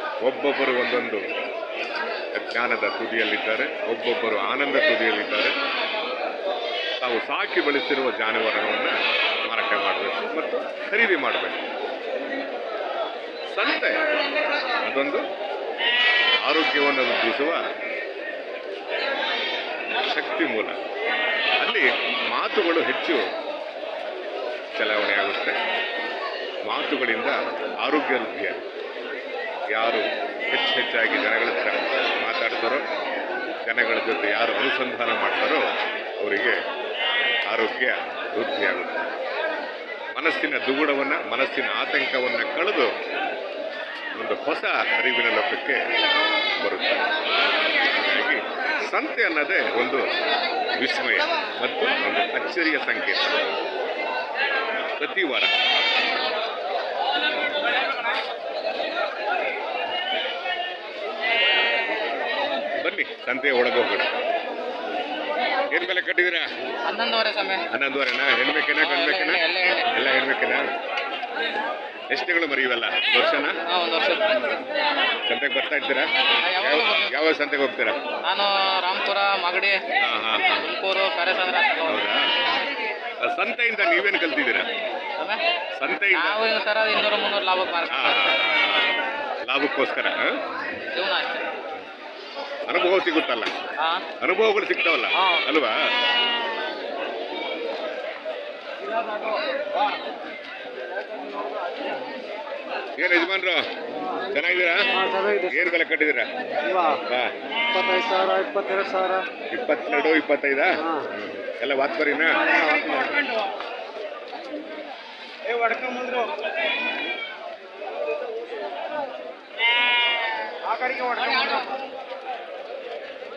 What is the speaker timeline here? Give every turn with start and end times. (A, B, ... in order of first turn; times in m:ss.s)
0:00.2-0:01.2 A
0:02.3-0:05.6 A
0:07.0-0:09.0 A
0:09.5-0:11.6 A
0:13.5-0:14.0 A
0:14.8-0:15.2 A
0:16.4-0:17.6 A
0:20.0-0:20.8 A
0:21.6-0:23.2 A
0:24.7-0:25.6 A
0:26.7-0:28.6 A
0:29.7-0:32.8 A
0:33.6-0:35.6 A
0:36.2-0:36.6 A
0:37.5-0:39.1 A
0:40.2-0:42.9 A
0:44.2-0:45.8 A
0:46.6-0:47.1 A
0:47.9-0:50.0 A
0:50.8-0:53.4 A
0:55.0-0:55.5 A
1:02.8-1:04.1 A
1:05.7-1:06.5 A
1:06.9-1:07.7 B
1:07.7-1:10.6 A
1:08.8-1:10.0 B
1:12.1-1:13.6 A
1:13.6-1:14.6 B
1:15.3-1:16.1 A
1:16.4-1:17.2 B
1:16.6-1:18.0 A
1:18.2-1:19.8 B
1:20.0-1:20.7 A
1:20.6-1:22.1 B
1:21.8-1:22.4 A
1:23.2-1:24.7 A
1:25.8-1:26.4 A
1:26.2-1:28.3 B
1:27.9-1:28.9 A
1:29.5-1:30.4 A
1:30.9-1:31.5 B
1:32.7-1:33.6 A
1:33.8-1:34.1 B
1:34.2-1:35.8 A
1:39.0-1:39.6 C
1:41.1-1:41.7 C
1:43.0-1:43.6 A
1:44.3-1:44.9 A
1:45.0-1:45.7 C
1:45.5-1:46.3 A
1:46.7-1:47.0 C
1:47.0-1:47.3 A
1:47.6-1:49.3 C
1:49.5-1:52.6 A
1:52.5-1:53.4 C
1:55.4-1:56.4 C
2:00.6-2:01.7 C